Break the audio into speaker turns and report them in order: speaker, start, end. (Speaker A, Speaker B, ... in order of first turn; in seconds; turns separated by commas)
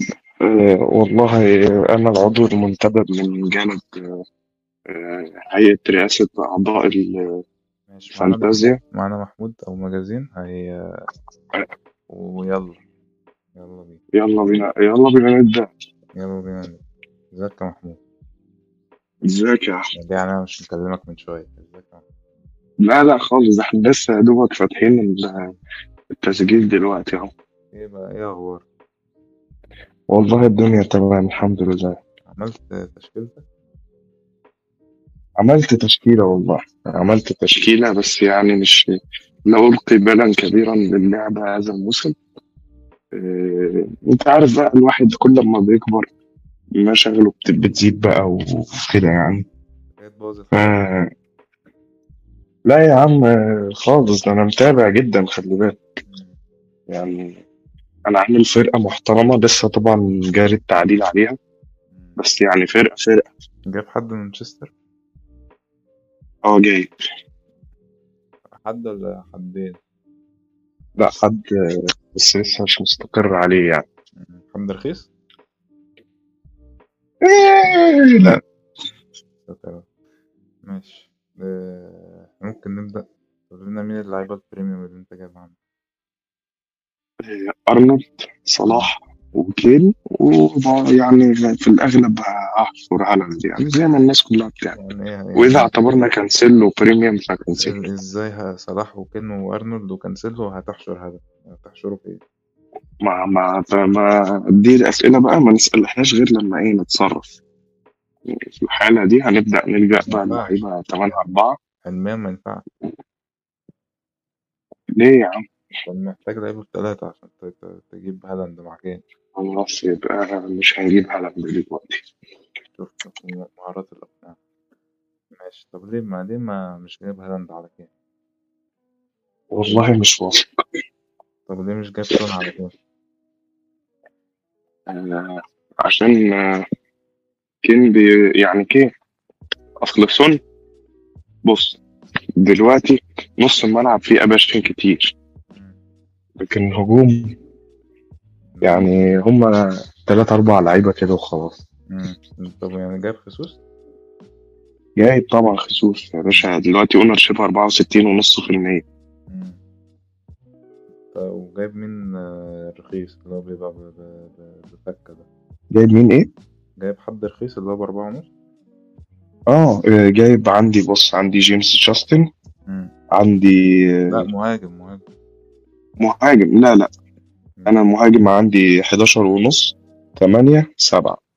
Speaker A: 0.4-4.1, Speaker A: 4.9-7.2, Speaker B: 7.9-10.8, Speaker A: 8.2-8.8, Speaker B: 12.1-12.8, Speaker B: 13.6-14.0, Speaker A: 14.1-15.7, Speaker B: 16.1-18.0, Speaker A: 19.2-19.9, Speaker B: 19.9-22.0, Speaker A: 22.8-25.3, Speaker A: 26.2-27.3, Speaker B: 27.7-28.6, Speaker A: 30.1-32.0, Speaker B: 32.3-33.4, Speaker A: 35.4-38.9, Speaker A: 39.5-42.2, Speaker A: 43.1-46.1, Speaker A: 46.8-49.5, Speaker B: 50.0-50.9, Speaker A: 50.5-51.1, Speaker A: 52.7-55.8, Speaker B: 56.0-56.4, Speaker A: 56.9-57.4, Speaker A: 58.1-61.4, Speaker B: 61.9-62.2, Speaker A: 62.2-63.2, Speaker B: 63.7-64.7, Speaker A: 66.5-66.9, Speaker B: 68.6-69.8, Speaker A: 71.0-71.5, Speaker A: 72.1-73.8, Speaker B: 74.2-75.1, Speaker A: 77.2-78.4, Speaker B: 79.5-79.9, Speaker B: 80.6-85.5, Speaker A: 87.2-94.8, Speaker B: 94.7-96.0, Speaker A: 95.4-97.8, Speaker B: 97.6-102.2, Speaker A: 103.0-107.3, Speaker A: 108.3-111.6, Speaker B: 110.0-111.2, Speaker B: 111.8-112.7, Speaker A: 115.0-115.4, Speaker B: 115.8-119.0, Speaker A: 119.4-122.0, Speaker B: 122.8-124.4, Speaker B: 125.3-127.9, Speaker A: 129.5-130.6, Speaker B: 131.5-132.8, Speaker A: 134.9-136.6, Speaker A: 137.6-138.9, Speaker A: 139.8-140.4, Speaker A: 141.4-141.8, Speaker A: 142.4-145.1, Speaker B: 145.5-145.8, Speaker A: 146.4-147.4, Speaker B: 148.5-149.1, Speaker A: 148.6-151.6, Speaker B: 151.9-153.6, Speaker A: 155.0-158.8, Speaker B: 159.3-159.6, Speaker B: 161.1-165.3, Speaker A: 165.7-166.3, Speaker B: 166.8-168.3, Speaker A: 169.5-172.3, Speaker B: 172.7-172.9, Speaker A: 173.1-174.3, Speaker B: 174.1-175.1, Speaker A: 176.0-176.9, Speaker B: 177.6-177.8, Speaker A: 177.7-181.2